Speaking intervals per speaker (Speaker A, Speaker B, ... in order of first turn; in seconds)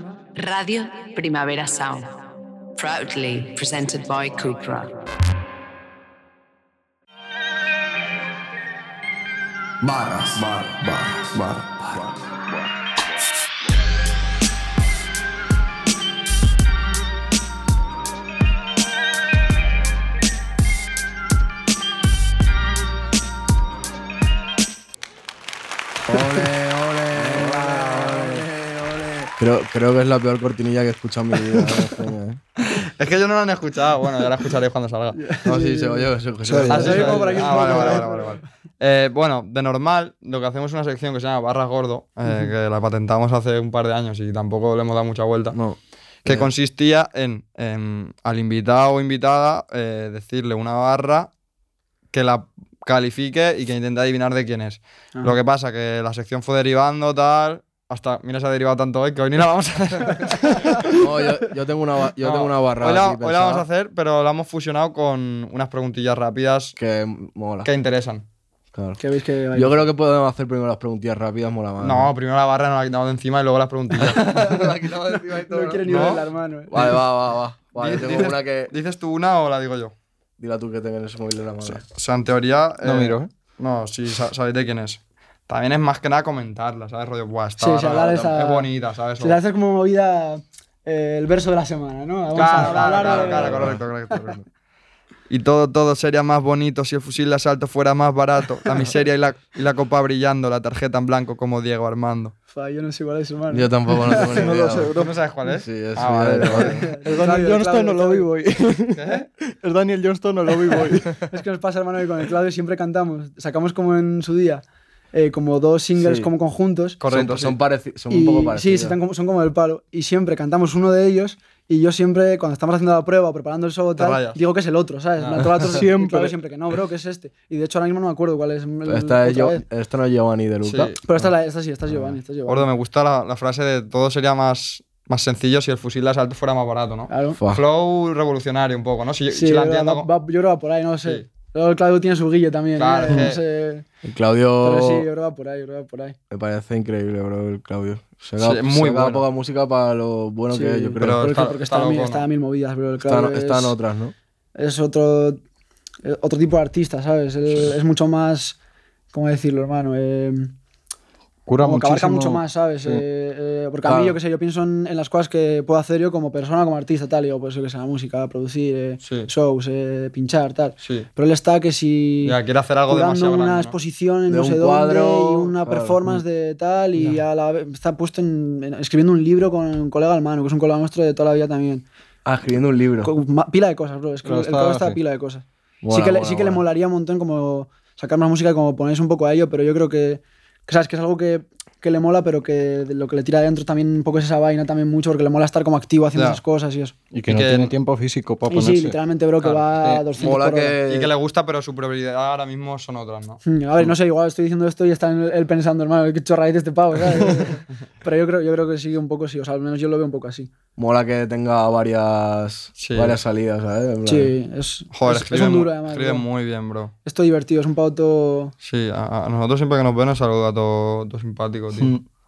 Speaker A: 0.3-2.1, 2.8-4.9
Speaker B: 26.1-32.4, 35.4-37.2, 45.5-46.5, 60.9-63.6, 66.8-67.7, 68.7-69.0, 69.5-72.1, 74.0-76.2, 76.7-78.7, 80.4-81.8, 92.5-93.8, 103.5-104.9, 105.5-106.8, 116.0-116.3, 117.1-119.0, 128.8-131.2, 131.9-132.2, 137.4-137.6, 144.0-145.1, 146.3-151.3, 153.0-154.1, 163.8-164.2, 174.3-176.2, 182.2-183.1, 185.8-186.6, 200.2-201.1, 210.8-214.3
Speaker C: 26.1-26.4, 27.1-29.3, 35.1-38.4, 69.0-69.9, 75.1-76.7, 87.6-94.2, 102.5-104.5, 106.6-108.3, 111.3-117.0, 118.1-129.6, 131.0-132.7, 137.1-137.4, 139.3-143.8, 144.6-146.2, 150.5-153.8, 154.5-155.4, 156.0-158.6, 159.1-160.5, 161.6-172.3, 172.9-181.8, 183.0-196.9, 198.5-200.8, 203.4-210.5, 214.1-216.2, 217.0-218.5
Speaker D: 32.6-35.2, 36.7-45.6, 46.2-51.3, 52.1-60.9, 62.2-66.8, 67.6-68.2, 71.8-74.6, 75.8-76.9, 77.7-79.9, 81.8-89.4, 92.3-94.4, 95.3-102.3, 104.8-106.9, 108.9-109.3, 117.0-117.5, 124.0-124.4, 125.2-125.5, 130.6-131.0, 132.5-140.1, 142.8-143.4, 148.4-149.2, 151.0-152.2, 169.0-169.3, 170.8-171.1, 172.2-173.8, 197.3-197.7, 200.9-203.4, 212.8-213.2, 214.9-216.9, 218.6-221.9
Speaker E: 36.4-38.1, 82.8-83.3, 104.2-105.1, 107.0-111.3, 125.7-126.3, 161.4-163.0, 184.2-185.0, 197.1-199.0, 221.8-222.0